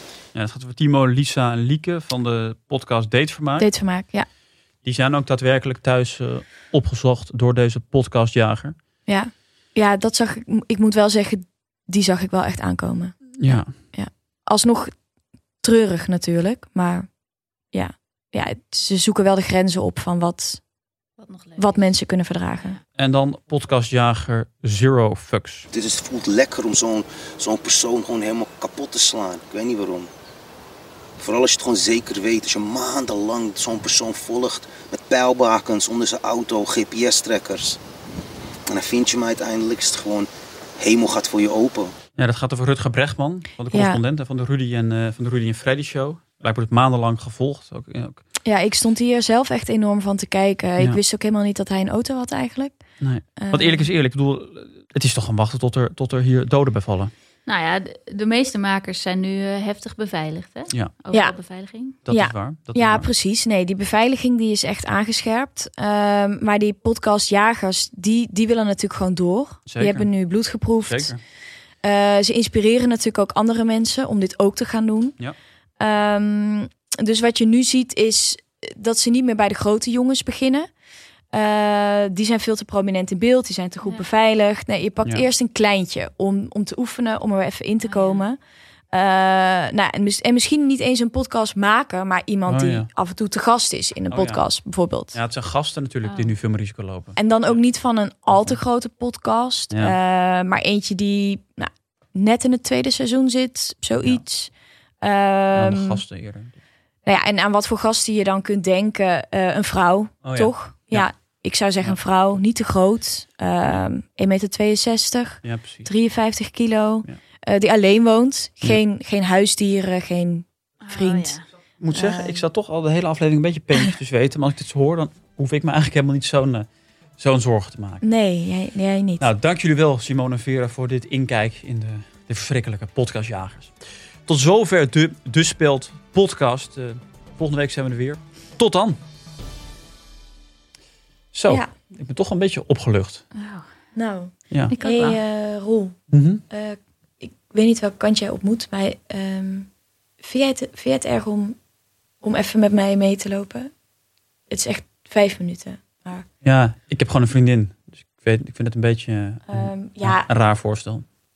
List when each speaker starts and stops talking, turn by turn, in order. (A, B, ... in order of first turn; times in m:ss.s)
0:00.3-0:03.7 A
0:03.6-0:04.3 B
0:04.8-0:08.8 A
0:09.1-0:14.9 B
0:13.4-0:13.7 A
0:15.6-0:17.0 B
0:17.7-0:20.6 B
0:21.2-0:21.9 C
0:21.6-0:22.8 B
0:23.0-0:25.7 A
0:25.7-0:30.1 D
0:31.2-0:37.8 D
0:38.7-0:41.9 D
0:42.2-0:48.2 A
0:43.7-0:44.0 B
0:48.4-0:52.8 B
0:53.0-0:57.1 A
0:53.4-0:53.9 B
0:57.4-1:02.0 C
1:02.0-1:03.1 A
1:02.1-1:11.1 B
1:09.7-1:10.1 A
1:10.8-1:11.2 A
1:11.8-1:15.2 B
1:15.8-1:20.7 B
1:21.3-1:28.4 B
1:27.8-1:28.2 C
1:28.9-1:35.2 B
1:32.4-1:32.9 A
1:34.1-1:34.4 A
1:35.1-1:37.6 A
1:36.0-1:36.3 C
1:37.2-1:44.5 B
1:38.3-1:38.6 A
1:39.7-1:40.0 A
1:45.0-1:46.0 B
1:45.5-1:46.6 A
1:47.0-2:01.4 B
1:50.2-1:51.1 A
1:55.4-1:55.9 A
2:00.8-2:01.5 C
2:01.8-2:06.7 A
2:01.9-2:02.4 B
2:07.2-2:08.0 A
2:08.0-2:09.3 B
2:09.2-2:13.7 A
2:14.2-2:19.0 A
2:21.3-2:23.2 A
2:23.3-2:23.6 C
2:23.9-2:25.9 B
2:24.7-2:25.2 C
2:26.1-2:26.4 A
2:26.5-2:29.7 B
2:30.2-2:31.5 B
2:32.2-2:33.7 B
2:34.5-2:36.2 B
2:36.4-2:41.0 A
2:39.5-2:40.3 B